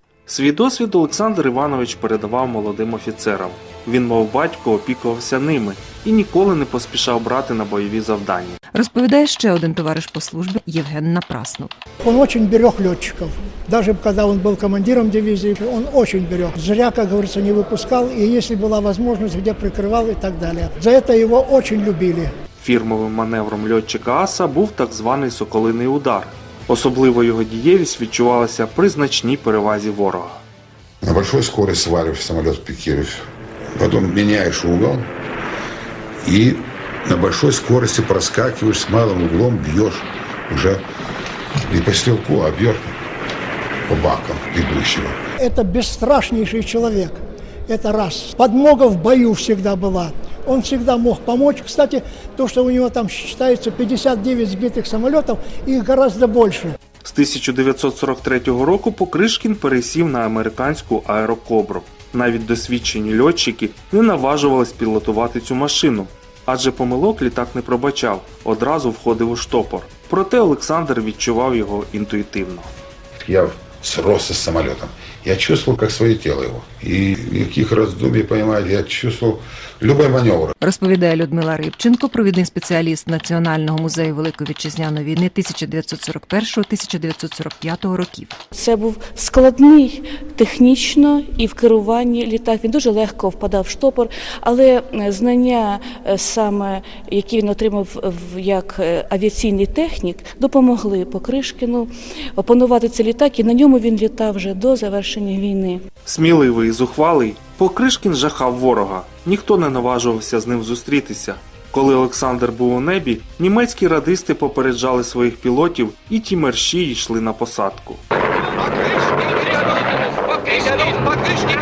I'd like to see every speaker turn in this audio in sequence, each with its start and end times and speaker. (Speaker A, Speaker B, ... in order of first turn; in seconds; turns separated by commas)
Speaker A: 0.3-8.6, Speaker B: 8.7-11.7, Speaker C: 12.0-22.3, Speaker A: 22.6-30.4, Speaker D: 31.0-35.1, Speaker D: 36.2-40.8, Speaker D: 41.6-42.9, Speaker D: 43.9-45.2, Speaker C: 45.4-56.7, Speaker A: 57.0-72.7, Speaker D: 73.2-80.5, Speaker B: 80.6-88.4, Speaker E: 88.5-105.8, Speaker A: 106.0-118.0